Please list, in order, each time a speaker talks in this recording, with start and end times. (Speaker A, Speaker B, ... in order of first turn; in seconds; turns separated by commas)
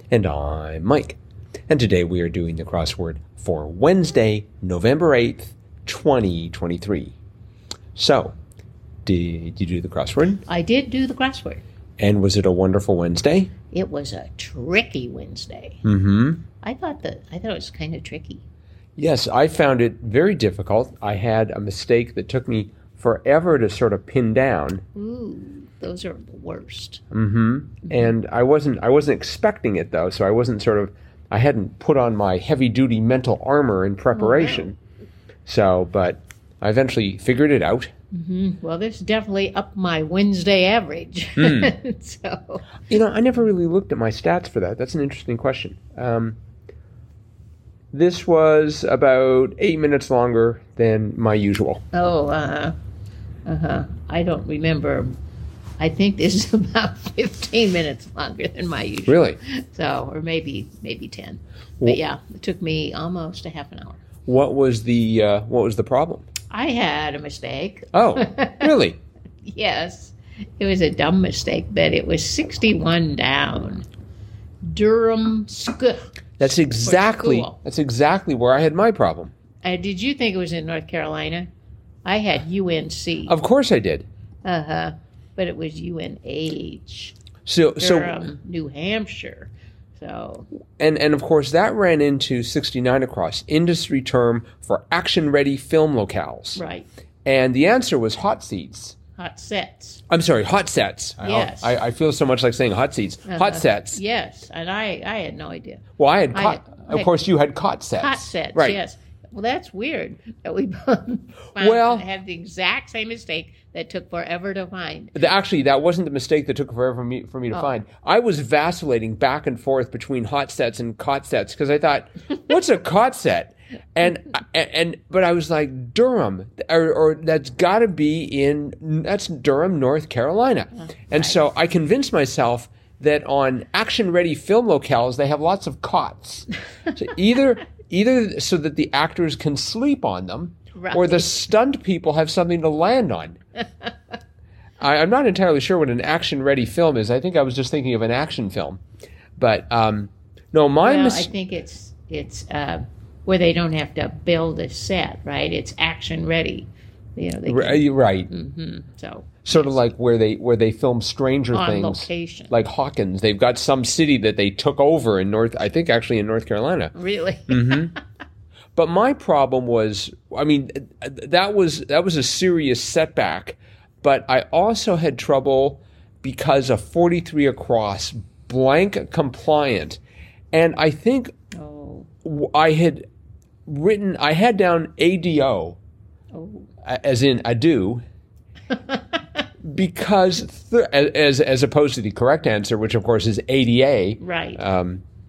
Speaker A: 0.1-7.1, Speaker A: 7.9-8.3, Speaker A: 9.0-10.4, Speaker B: 10.4-11.6, Speaker A: 12.0-13.5, Speaker B: 13.7-15.8, Speaker A: 15.8-16.4, Speaker B: 16.6-18.4, Speaker A: 19.0-24.8, Speaker B: 24.9-27.0, Speaker A: 27.1-34.8, Speaker B: 34.1-34.7, Speaker A: 35.5-37.9, Speaker B: 38.1-42.6, Speaker A: 41.4-41.7, Speaker A: 42.9-46.4, Speaker A: 47.9-51.8, Speaker B: 51.9-52.7, Speaker B: 53.5-55.1, Speaker B: 55.8-64.0, Speaker A: 59.1-59.4, Speaker A: 64.3-66.3, Speaker B: 66.5-68.7, Speaker A: 67.9-69.0, Speaker B: 69.5-73.8, Speaker B: 74.6-77.5, Speaker A: 76.4-79.3, Speaker B: 79.6-81.5, Speaker B: 82.0-83.3, Speaker A: 83.3-84.1, Speaker B: 84.4-87.2, Speaker A: 87.5-88.2, Speaker B: 87.8-90.5, Speaker A: 90.8-96.6, Speaker B: 96.5-96.9, Speaker A: 97.2-99.0, Speaker B: 99.2-100.0, Speaker A: 100.1-104.0, Speaker B: 101.2-101.8, Speaker B: 103.2-107.1, Speaker A: 106.0-108.8, Speaker B: 108.0-115.2, Speaker A: 111.6-112.0, Speaker A: 115.1-143.4, Speaker B: 130.8-131.4, Speaker B: 140.7-141.3, Speaker A: 144.8-148.8, Speaker A: 149.4-151.3, Speaker B: 150.8-159.9, Speaker A: 157.5-158.3, Speaker A: 159.4-166.9, Speaker B: 161.5-162.5, Speaker B: 166.9-168.0, Speaker A: 167.5-167.9, Speaker A: 168.7-180.0, Speaker A: 180.5-181.3, Speaker B: 181.5-182.1, Speaker A: 182.2-183.1, Speaker A: 183.7-185.8, Speaker B: 186.3-186.7, Speaker A: 186.8-188.0, Speaker B: 188.7-189.0, Speaker A: 189.6-195.0, Speaker B: 194.2-194.6